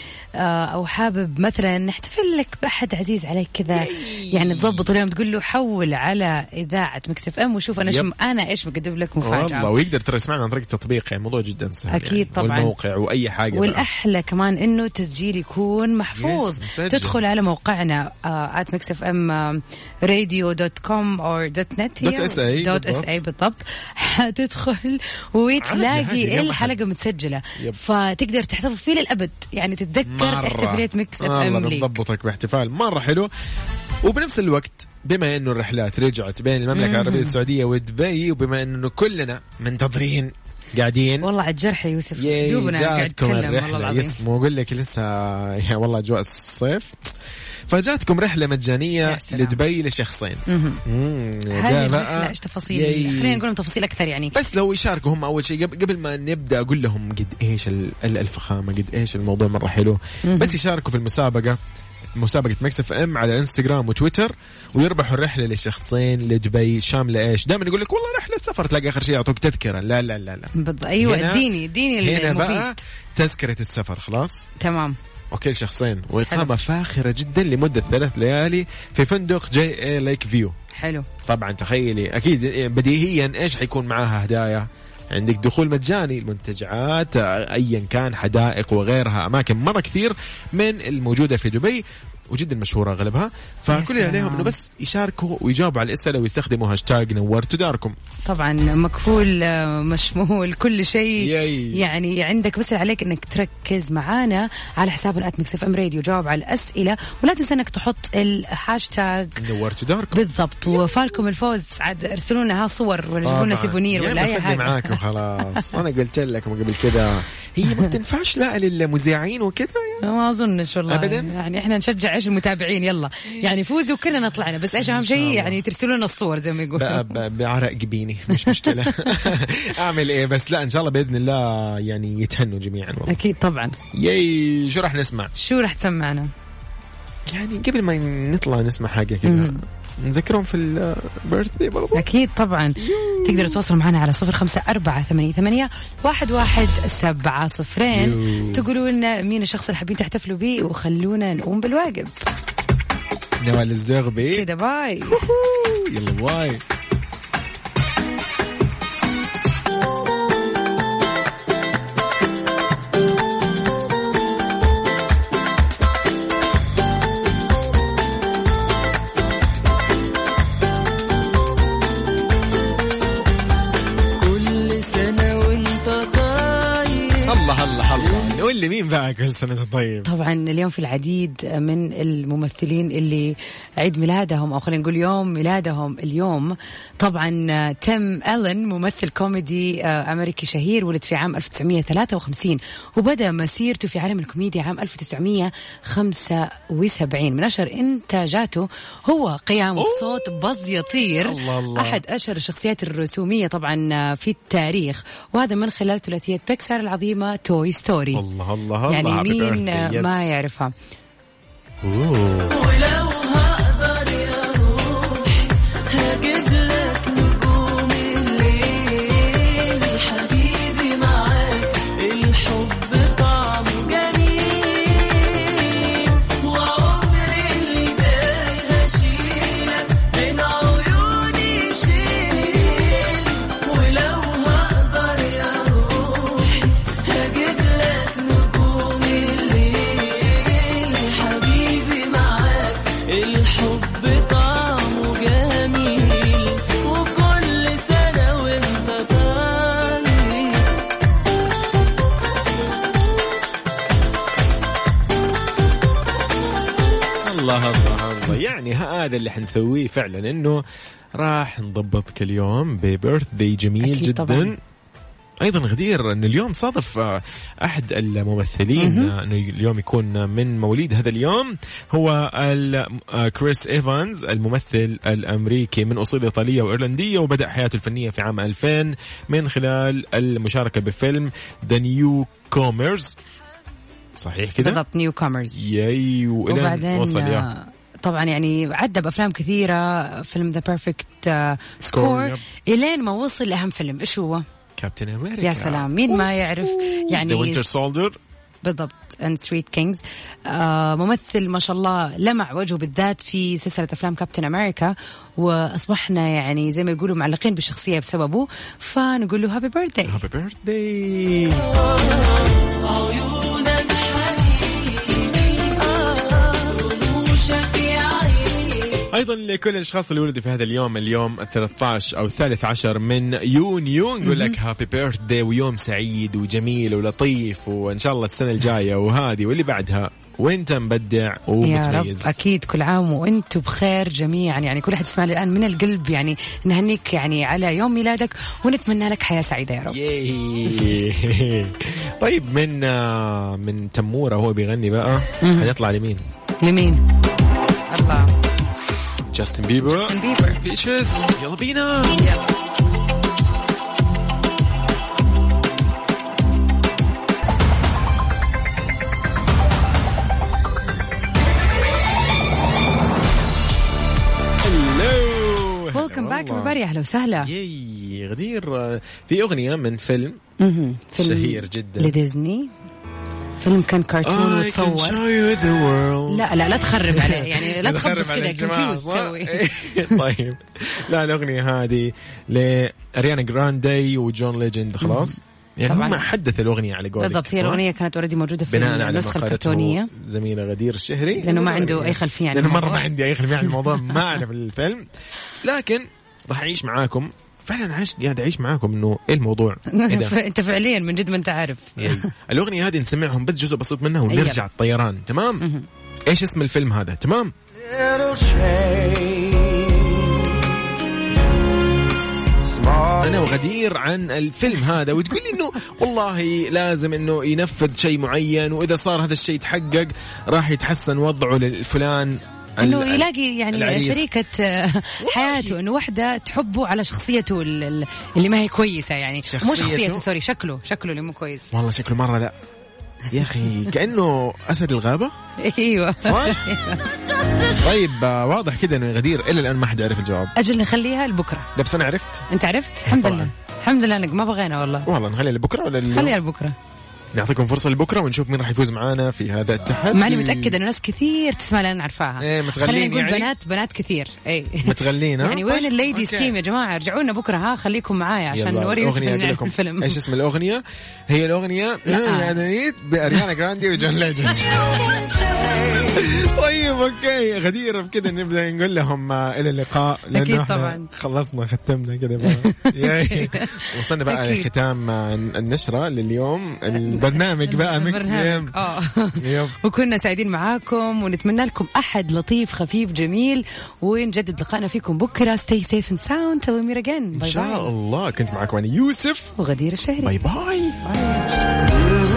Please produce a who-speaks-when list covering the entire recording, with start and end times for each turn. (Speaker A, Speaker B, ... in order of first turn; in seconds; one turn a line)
Speaker A: 0.4-9.7
Speaker B: 3.7-4.9
Speaker B: 7.8-8.1
Speaker B: 9.2-13.8
Speaker A: 11.9-12.7
Speaker A: 13.5-31.9
Speaker B: 16.1-17.2
Speaker B: 22.0-23.1
Speaker B: 25.6-26.8
Speaker B: 30.0-33.3
Speaker B: 34.0-41.3
Speaker A: 36.7-37.4
Speaker A: 41.2-44.2
Speaker B: 42.2-47.0
Speaker B: 47.7-53.4
Speaker A: 49.0-49.6
Speaker A: 50.5-50.8
Speaker A: 51.5-54.4
Speaker B: 54.3-61.6
Speaker A: 60.2-60.5
Speaker B: 62.2-74.5
Speaker A: 70.5-72.8
Speaker A: 74.6-75.0
Speaker B: 75.3-80.5
Speaker A: 80.7-81.1
Speaker B: 81.2-98.0
Speaker A: 93.7-94.5
Speaker A: 98.2-109.4
Speaker B: 101.2-101.8
Speaker B: 109.4-111.2
Speaker A: 110.1-115.7
Speaker B: 113.2-120.0
Speaker A: 120.0-127.2
Speaker B: 120.9-121.3
Speaker B: 124.7-125.6
Speaker B: 126.8-133.2
Speaker A: 128.3-129.3
Speaker A: 133.1-133.8
Speaker B: 133.9-135.3
Speaker A: 135.3-136.3
Speaker B: 137.3-142.1
Speaker A: 139.2-139.6
Speaker A: 141.9-152.2
Speaker B: 142.8-143.6
Speaker B: 147.9-148.7
Speaker B: 153.4-154.5
Speaker A: 154.3-155.2
Speaker B: 155.1-156.6
Speaker C: 174.2-177.4
Speaker B: 177.2-180.1
Speaker C: 178.0-178.4
Speaker A: 180.0-208.2
Speaker B: 199.8-200.3
Speaker B: 201.2-202.0
Speaker B: 208.1-210.4
Speaker A: 208.9-210.7
Speaker B: 211.8-212.6
Speaker C: 212.5-250.7
Speaker B: 257.2-260.6
Speaker B: 261.2-264.6
Speaker A: 263.8-264.5
Speaker B: 265.4-283.1
Speaker A: 268.8-269.1
Speaker B: 284.2-284.8
Speaker A: 284.6-285.7
Speaker B: 285.5-287.5
Speaker A: 286.5-294.4
Speaker B: 291.9-292.4
Speaker B: 294.8-298.2
Speaker A: 295.4-297.6
Speaker A: 298.6-310.2
Speaker B: 310.0-311.7
Speaker C: 312.0-319.1
Speaker B: 319.1-332.3
Speaker A: 324.2-324.6
Speaker A: 331.6-340.0
Speaker B: 339.9-346.2
Speaker A: 345.4-345.7
Speaker A: 346.6-347.0
Speaker A: 347.9-348.3
Speaker B: 349.2-352.3
Speaker A: 349.8-350.6
Speaker A: 352.1-352.4
Speaker B: 364.6-366.8
Speaker A: 365.9-367.5
Speaker B: 367.4-370.4
Speaker A: 370.6-372.7
Speaker B: 371.2-372.1
Speaker A: 373.6-375.2
Speaker B: 374.2-387.8
Speaker A: 376.3-380.2
Speaker A: 385.0-385.3
Speaker A: 385.9-386.2
Speaker A: 387.2-390.1
Speaker B: 388.7-395.1
Speaker A: 391.4-393.1
Speaker B: 395.6-400.4
Speaker A: 399.9-402.3
Speaker B: 402.0-405.6
Speaker A: 404.3-404.6
Speaker A: 405.6-405.9
Speaker B: 406.3-407.5
Speaker C: 408.4-409.5
Speaker B: 413.0-424.3
Speaker A: 422.8-431.7
Speaker B: 425.2-425.8
Speaker B: 429.4-430.2
Speaker B: 431.7-432.6
Speaker B: 433.2-435.3
Speaker A: 435.6-437.0
Speaker B: 436.2-436.6
Speaker B: 437.7-440.5
Speaker A: 440.6-441.7
Speaker B: 441.7-442.5
Speaker A: 442.5-445.1
Speaker B: 443.1-443.5
Speaker B: 445.0-446.4
Speaker A: 446.1-446.8
Speaker B: 447.3-450.8
Speaker A: 450.1-460.2
Speaker B: 452.4-453.5
Speaker B: 454.8-456.6
Speaker B: 458.5-465.2
Speaker A: 462.1-462.6
Speaker B: 465.9-478.8
Speaker A: 470.3-471.1
Speaker A: 472.4-474.7
Speaker A: 476.9-487.9
Speaker B: 479.4-479.7
Speaker B: 487.3-489.5
Speaker A: 489.6-490.3
Speaker B: 490.2-492.0